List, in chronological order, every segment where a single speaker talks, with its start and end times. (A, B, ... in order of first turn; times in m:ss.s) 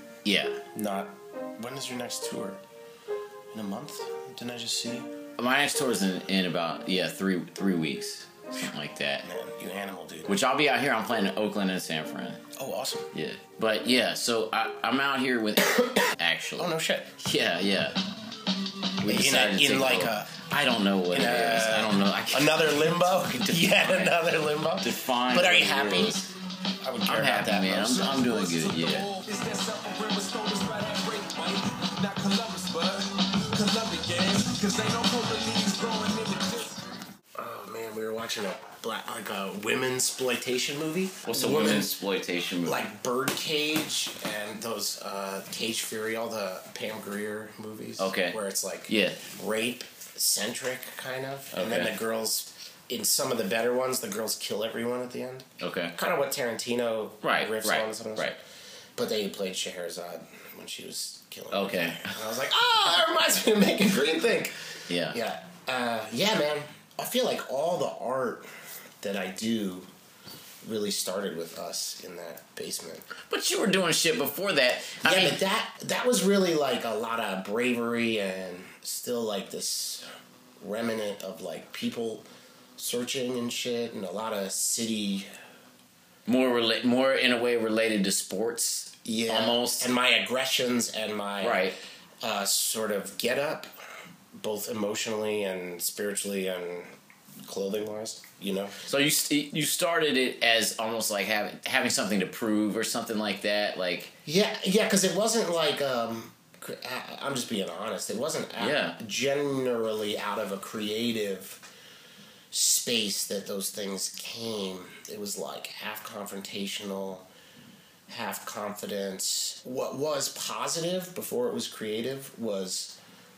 0:00.2-0:00.6 A
0:00.7-0:02.6 B
0:03.5-0:05.1 B
0:05.4-0:09.3 A
0:09.2-0:10.4 B
0:10.3-0:12.4 A
0:12.6-0:13.1 B
0:13.1-0:18.0 A
0:15.6-0:17.1 B
0:19.0-0:24.2 A
0:19.0-0:20.5 B
0:21.1-0:28.0 B
0:24.8-0:26.3 A
0:27.0-0:29.1 A
0:27.8-0:36.8 C
0:37.4-0:42.0 B
0:41.2-0:42.9 A
0:42.6-0:58.4 B
0:48.0-0:49.3 A
0:51.5-0:51.9 A
0:55.6-0:56.0 A
0:57.2-0:58.4 A
0:59.0-1:04.6 B
1:01.5-1:02.2 A
1:04.9-1:05.2 A
1:05.1-1:08.5 B
1:09.0-1:09.9 B
1:10.6-1:13.1 B
1:13.3-1:15.4 A
1:15.0-1:20.1 B
1:20.6-1:22.3 B
1:22.8-1:25.3 B
1:26.3-1:29.9 A
1:29.0-1:31.6 B
1:31.4-1:31.8 A
1:32.2-1:33.7 B
1:34.4-1:38.8 B
1:38.8-1:44.1 A
1:44.2-1:51.6 B
1:48.6-1:49.0 A
1:52.5-1:57.3 B
1:58.1-2:03.0 B